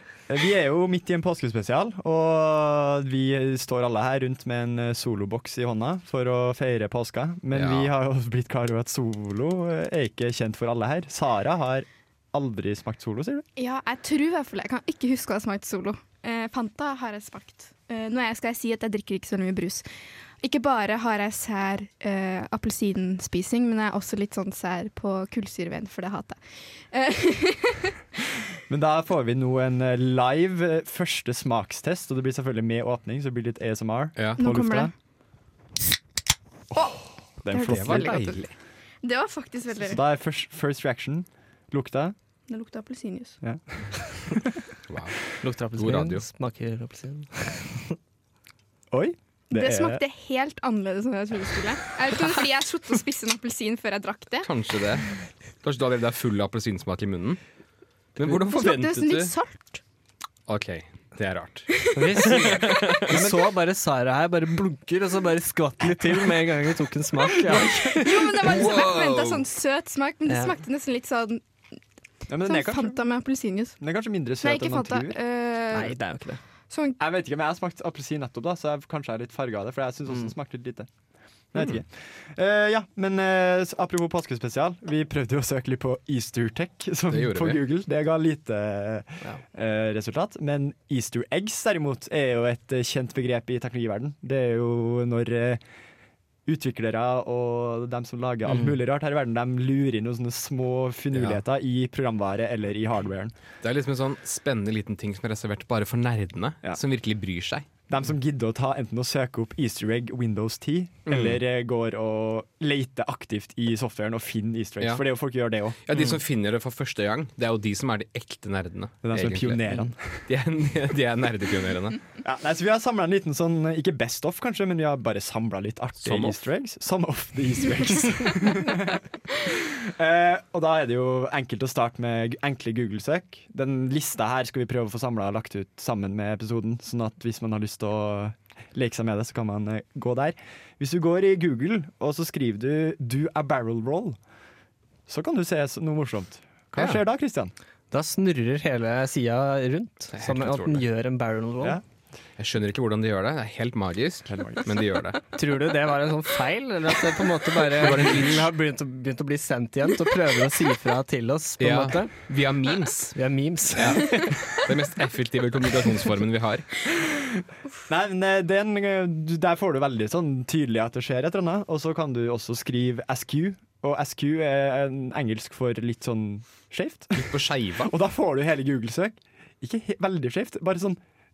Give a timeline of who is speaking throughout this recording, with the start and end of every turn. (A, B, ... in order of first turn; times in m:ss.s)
0:00.3-0:13.5 A
0:07.5-0:07.9 B
0:13.6-0:19.9 C
0:20.4-0:28.0 C
0:28.7-0:34.9 A
0:34.4-0:34.9 C
0:36.7-0:40.0 C
0:36.8-0:38.5 A
0:37.6-0:38.5 B
0:39.8-0:42.2 A
0:42.5-0:43.4 C
0:43.4-0:44.4 A
0:44.9-0:46.3 B
0:45.4-0:48.0 D
0:48.9-0:50.0 A
0:49.5-0:54.5 C
0:54.4-0:57.4 B
0:58.2-0:59.3 B
0:58.3-0:59.8 C
1:00.5-1:03.1 B
1:01.9-1:08.0 D
1:03.1-1:03.4 A
1:07.5-1:08.0 A
1:08.0-1:11.8 C
1:08.4-1:09.4 B
1:10.3-1:10.5 D
1:12.3-1:13.0 A
1:12.4-1:16.1 C
1:13.8-1:15.2 A
1:15.7-1:16.4 D
1:16.7-1:17.0 C
1:17.0-1:35.6 A
1:20.1-1:20.3 D
1:27.1-1:27.6 B
1:36.5-1:43.4 A
1:38.5-1:38.7 D
1:41.1-1:41.4 B
1:43.6-1:47.7 B
1:47.9-1:55.8 A
1:51.1-1:51.4 B
1:54.8-2:02.0 B
1:59.0-2:00.2 A
2:02.2-2:24.2 A
2:06.0-2:06.4 B
2:25.1-2:27.5 A
2:27.9-2:31.8 D
2:30.1-2:30.8 B
2:32.4-2:35.2 B
2:34.3-2:34.8 A
2:35.4-2:42.4 D
2:37.8-2:38.5 B
2:41.6-2:43.2 B
2:43.2-2:44.2 D
2:43.8-2:46.7 B
2:47.9-3:01.0 A
2:57.2-2:57.9 B